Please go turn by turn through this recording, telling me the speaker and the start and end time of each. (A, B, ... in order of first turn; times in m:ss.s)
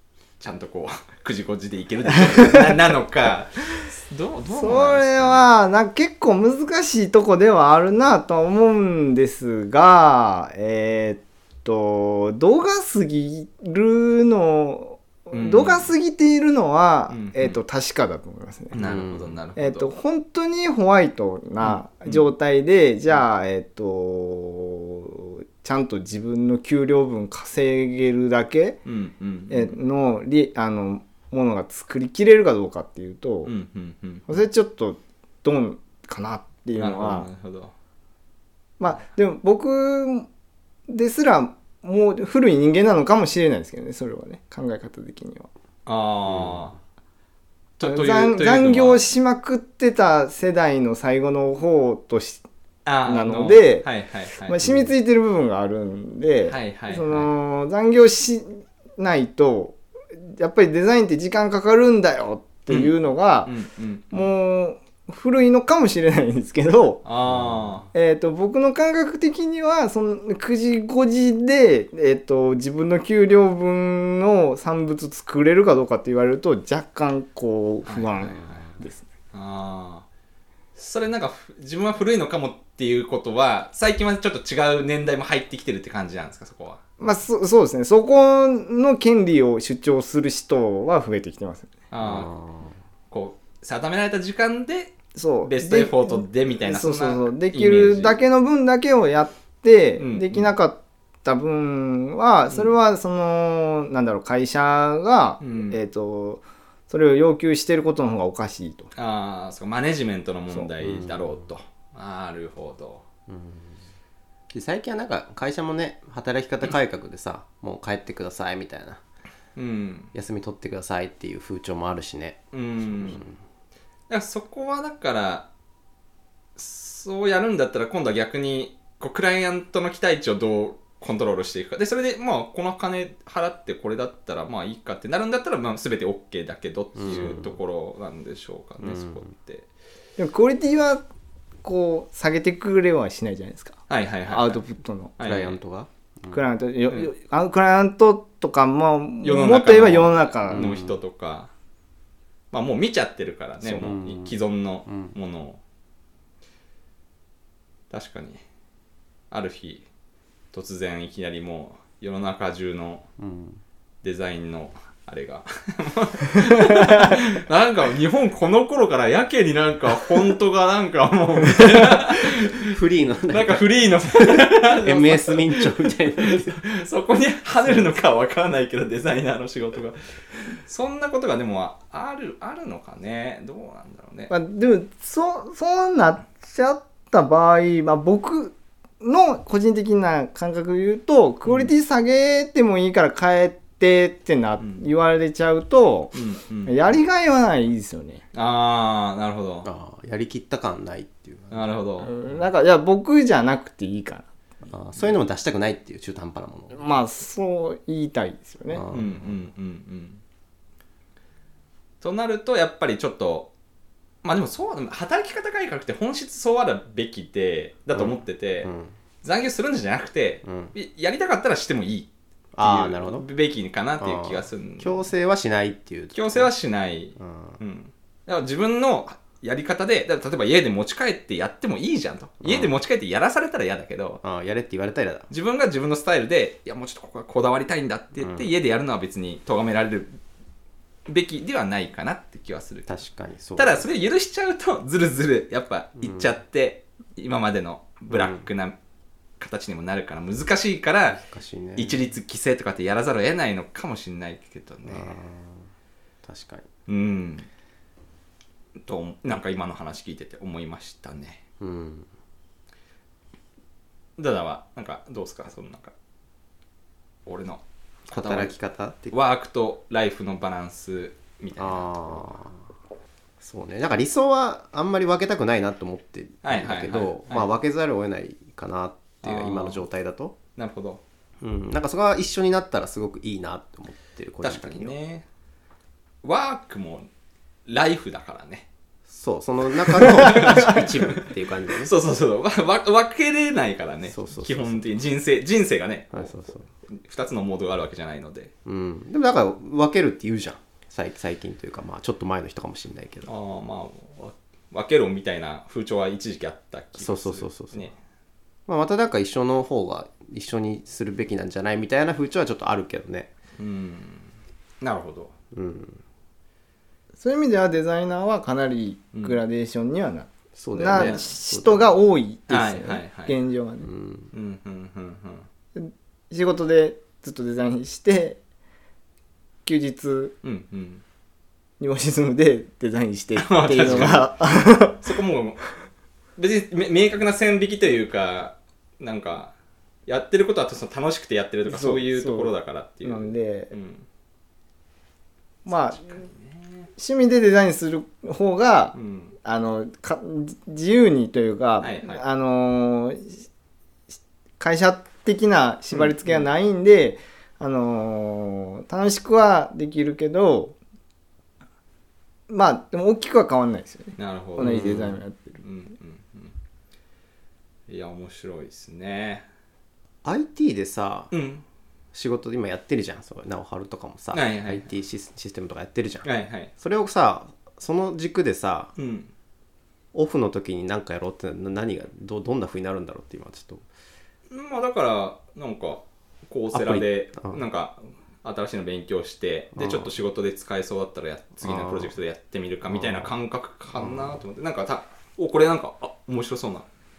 0:00.4-0:05.4 A
0:02.2-0:02.8 B
0:04.5-0:18.8 B
0:15.3-0:15.9 A
0:17.1-0:17.6 A
0:18.7-0:19.9 A
0:18.8-0:19.4 C
0:19.6-0:28.8 B
0:21.6-0:22.2 A
0:28.8-0:29.8 A
0:29.5-0:33.5 B
0:33.4-0:34.4 A
0:34.3-0:37.3 B
0:36.7-0:37.7 A
0:38.8-0:40.3 B
0:40.9-0:45.5 B
0:45.8-0:46.8 A
0:46.3-0:46.6 C
0:47.8-0:49.0 A
0:47.8-0:52.4 B
0:52.8-0:54.6 A
0:53.0-0:53.9 B
0:54.5-1:03.5 B
0:54.6-0:54.9 C
0:56.5-0:57.3 A
1:02.7-1:02.9 A
1:03.4-1:04.3 A
1:04.1-1:07.0 B
1:07.0-1:07.9 A
1:07.3-1:07.7 C
1:07.9-1:19.0 B
1:17.8-1:18.8 A
1:18.4-1:18.6 C
1:19.3-1:20.0 A
1:20.8-1:26.8 A
1:27.0-1:31.7 B
1:31.9-1:32.3 A
1:32.0-1:32.8 C
1:33.1-1:38.2 A
1:35.1-1:48.9 B
1:40.0-1:40.5 A
1:45.4-1:45.8 A
1:49.0-1:53.0 A
1:50.8-1:51.4 C
1:53.3-1:53.8 C
1:54.5-1:59.0 C
1:59.6-2:00.1 A
2:00.1-2:03.4 C
2:02.5-2:03.3 A
2:04.1-2:05.5 A
2:06.6-2:19.6 A
2:17.0-2:17.6 C
2:18.8-2:19.3 C
2:20.2-2:21.0 B
2:21.6-2:25.1 B
2:23.9-2:24.6 A
2:25.2-2:25.6 A
2:25.2-2:26.4 C
2:26.3-2:30.8 B
2:29.2-2:31.5 A
2:30.5-2:31.0 C
2:32.5-2:35.6 A
2:33.6-2:35.1 C
2:37.9-2:38.4 A
2:39.3-2:39.8 A
2:40.5-2:43.0 A
2:43.2-2:43.6 C
2:44.0-2:52.8 A
2:52.0-2:56.6 C
2:53.3-3:04.3 A
3:04.3-3:16.1 B
3:11.4-3:11.7 A
3:14.6-3:14.8 A
3:16.1-3:16.8 A
3:16.6-3:18.2 B
3:18.3-3:19.7 A
3:19.6-3:21.7 C
3:21.5-3:22.1 A
3:22.0-3:24.3 B
3:24.7-3:26.8 C
3:26.7-3:28.8 B
3:28.7-3:29.4 C
3:28.9-3:30.2 A
3:32.0-3:33.5 A
3:34.2-3:38.7 A
3:37.9-3:38.9 C
3:39.2-3:45.1 A
3:40.4-3:40.7 C
3:42.5-3:43.3 C
3:44.0-3:46.5 C
3:46.1-3:54.2 A
3:47.2-3:47.6 C
3:52.4-3:52.7 C
3:54.2-3:55.3 C
3:55.3-4:00.2 A
3:58.2-3:58.5 C
4:01.1-4:02.9 A
4:02.9-4:03.8 C
4:03.6-4:08.8 A
4:06.0-4:06.3 C
4:08.1-4:08.4 C
4:09.4-4:11.2 A
4:11.1-4:12.0 C
4:11.8-4:15.1 A
4:14.9-4:15.7 C
4:16.2-4:16.7 C
4:16.9-4:17.5 A
4:18.8-4:21.4 A
4:21.6-4:22.1 C
4:24.2-4:25.9 A
4:27.2-4:28.5 A
4:28.1-4:29.2 C
4:29.1-4:32.3 A
4:31.6-4:32.6 C
4:33.4-4:40.4 C
4:36.4-4:37.5 A
4:39.2-4:39.8 A
4:40.6-4:41.0 A
4:41.4-4:44.9 C
4:44.4-4:45.2 A
4:46.2-4:47.1 A
4:47.6-4:48.7 A
4:49.1-4:51.9 C
4:49.9-4:58.5 A
4:54.1-4:54.9 C
4:56.1-4:56.7 C
4:58.6-5:03.3 C
5:03.2-5:08.0 A
5:07.0-5:07.9 C
5:08.7-5:13.3 C
5:13.6-5:15.3 A
5:15.5-5:16.0 C
5:17.2-5:23.9 B
5:20.5-5:21.9 C
5:20.9-5:21.3 A
5:22.5-5:23.3 A
5:23.8-5:24.3 C
5:24.3-5:25.5 A
5:25.7-5:28.4 B
5:29.6-5:30.4 B
5:30.4-5:31.0 A
5:31.8-5:35.0 B
5:33.4-5:35.6 A
5:33.8-5:34.2 C
5:36.4-5:39.5 A
5:40.1-5:44.0 A
5:41.7-5:43.7 B
5:45.6-5:46.2 B
5:45.9-5:46.9 A
5:47.0-5:53.4 B
5:48.9-5:49.3 A
5:51.8-5:52.2 A
5:54.6-6:00.8 B
5:55.9-5:56.4 A
6:02.5-6:05.6 B
6:04.2-6:05.1 A
6:04.6-6:05.2 C
6:05.6-6:06.5 A
6:07.9-6:09.4 A
6:10.2-6:11.3 C
6:11.3-6:11.6 A
6:12.1-6:18.9 C
6:14.3-6:14.9 A
6:16.2-6:16.7 A
6:19.0-6:19.3 A
6:20.1-6:23.8 C
6:24.5-6:36.9 A
6:26.7-6:27.6 C
6:29.8-6:30.1 C
6:31.6-6:32.1 C
6:32.8-6:33.3 C
6:33.9-6:34.4 C